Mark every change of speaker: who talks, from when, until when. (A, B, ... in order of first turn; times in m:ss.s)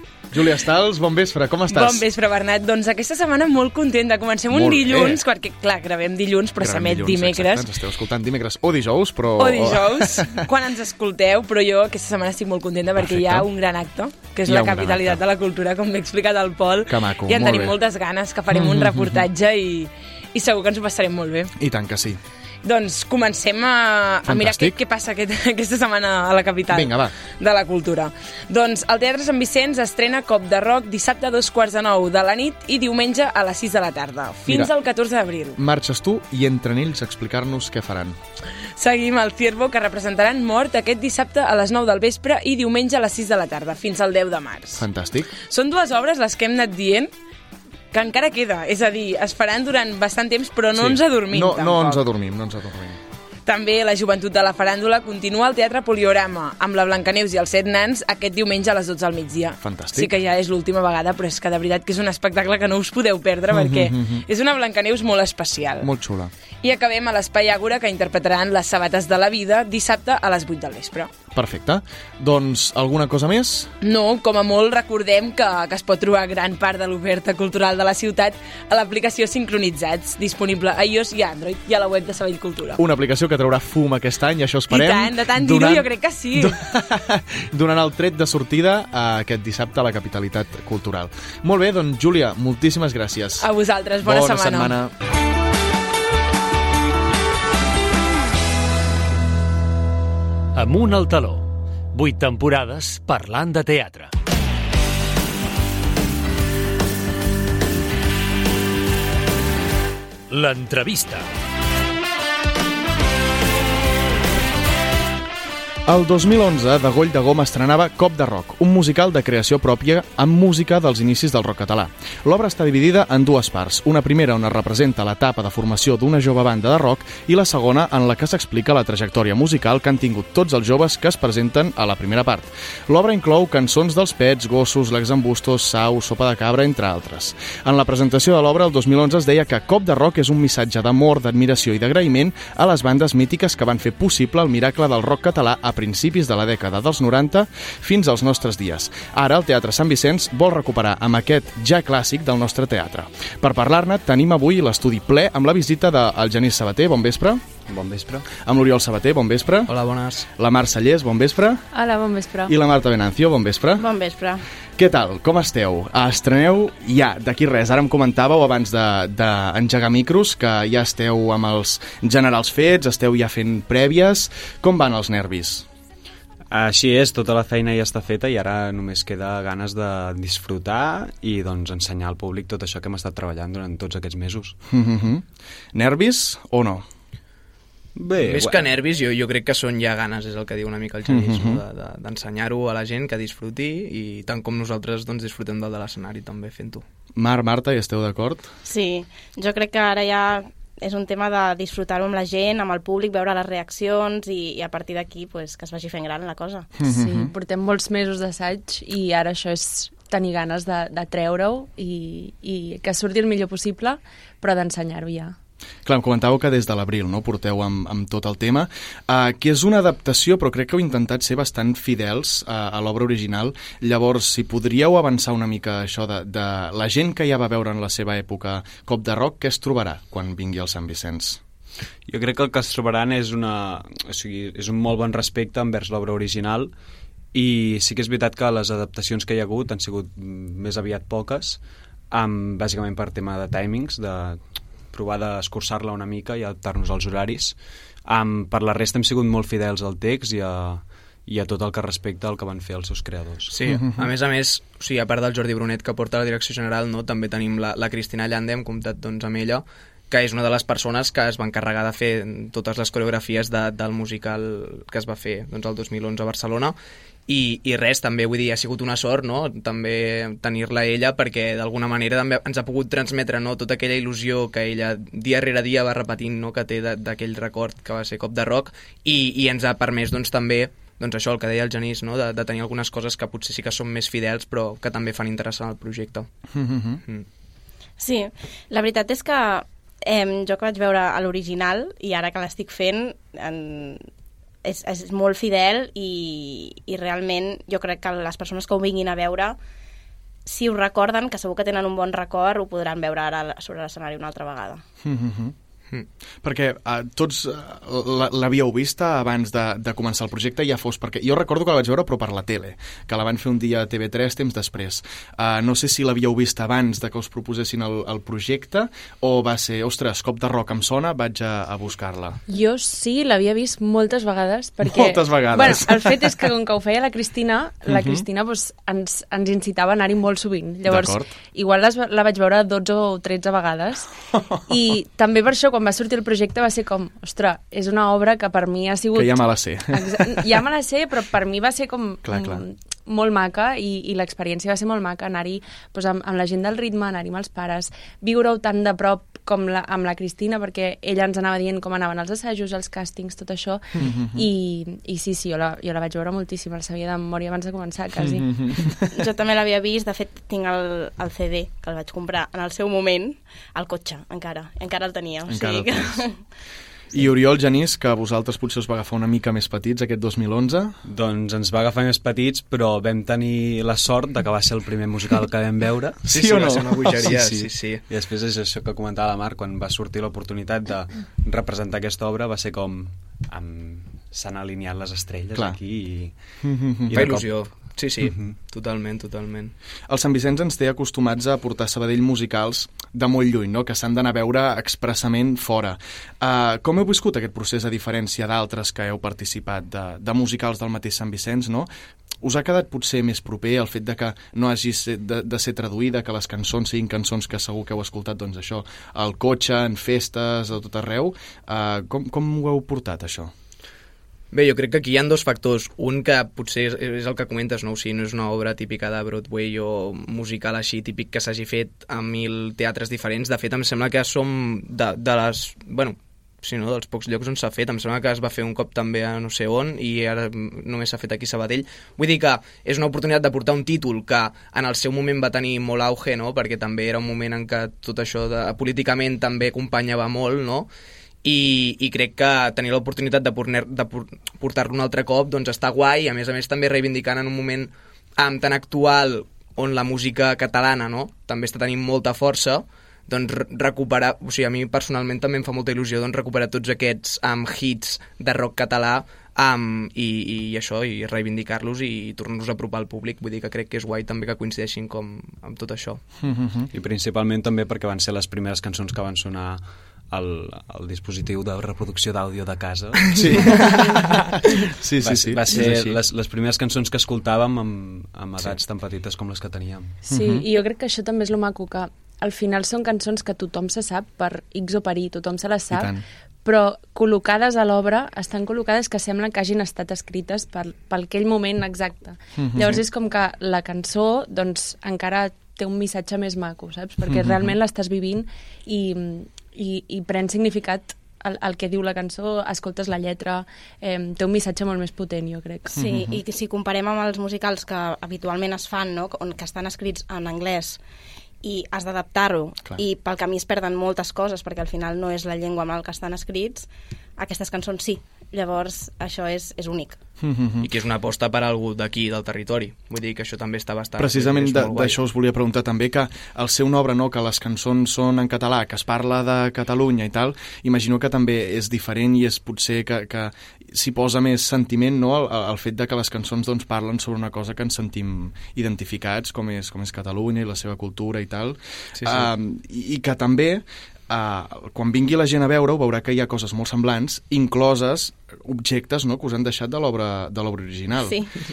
0:00.3-0:02.0 A
0:01.7-0:07.7 B
0:04.5-0:05.2 A
0:06.6-0:10.4 A
0:09.4-0:21.5 B
0:13.0-0:13.5 A
0:14.4-0:15.2 A
0:16.9-0:17.8 A
0:18.5-0:19.3 A
0:21.6-0:22.2 A
0:22.6-0:35.6 B
0:24.3-0:24.8 A
0:26.7-0:27.2 A
0:35.6-0:38.2 A
0:38.8-0:44.9 B
0:44.8-0:45.3 A
0:45.5-0:47.1 B
0:47.9-0:52.0 B
0:50.8-0:53.0 A
0:53.5-1:05.9 B
0:59.6-1:00.1 A
1:03.5-1:04.2 A
1:05.8-1:06.3 A
1:06.6-1:11.1 B
1:11.3-1:13.7 A
1:13.8-1:22.8 B
1:22.8-1:33.5 A
1:24.7-1:26.6 B
1:33.4-1:34.8 B
1:34.0-1:34.9 A
1:40.6-1:44.1 C
1:50.3-1:51.2 C
1:55.9-2:37.4 A
2:37.7-2:38.3 D
2:38.3-2:39.7 A
2:39.7-2:40.3 E
2:40.4-2:41.6 A
2:41.7-2:42.5 F
2:42.5-2:43.9 A
2:43.8-2:44.4 G
2:44.8-2:55.7 A
2:56.5-3:04.6 D
3:04.7-3:06.8 A
3:08.0-3:08.7 D
3:08.2-3:16.8 E
3:11.1-3:11.6 A
3:17.2-3:18.5 A
3:18.6-3:26.7 G
3:26.8-3:27.3 A
3:26.8-3:35.4 F
3:35.8-3:51.4 A
3:52.1-3:56.7 D
3:57.3-4:13.5 D
4:13.5-4:26.8 E
4:13.7-4:14.1 A
4:27.3-4:46.3 E
4:46.5-4:47.0 A
4:48.0-4:54.1 G
4:54.6-4:59.6 G
5:00.5-5:04.8 G
5:05.0-5:05.6 A
5:06.4-5:22.4 A
5:22.5-5:34.1 F
5:24.8-5:26.4 A
5:27.9-5:28.2 A
5:30.9-5:31.3 A
5:34.3-5:34.6 A
5:34.7-5:58.8 F
5:39.1-5:40.4 A
5:42.2-5:42.6 A
5:54.0-5:54.5 A
5:58.2-5:59.0 A
5:59.1-6:06.4 G
6:05.5-6:06.3 A
6:07.1-6:11.0 A
6:11.0-6:27.7 D
6:16.2-6:17.4 A
6:16.3-6:18.0 E
6:26.4-6:27.4 A
6:27.1-6:29.7 E
6:28.2-6:28.5 D
6:30.1-6:41.9 A
6:42.4-6:53.5 A
6:54.5-7:20.9 E
7:21.4-7:46.2 E
7:46.4-7:46.9 A
7:46.9-7:54.0 D
7:53.4-7:56.2 A
7:55.2-8:00.2 D
8:00.2-8:26.1 F
8:00.3-8:00.7 A
8:05.9-8:06.2 A
8:12.6-8:13.0 A
8:17.2-8:17.8 A
8:25.9-8:31.0 G
8:26.0-8:26.4 A
8:31.6-8:40.2 G
8:40.4-8:40.9 A
8:40.8-8:45.2 E
8:44.2-9:11.4 A
9:02.2-9:02.5 E
9:11.2-9:11.5 G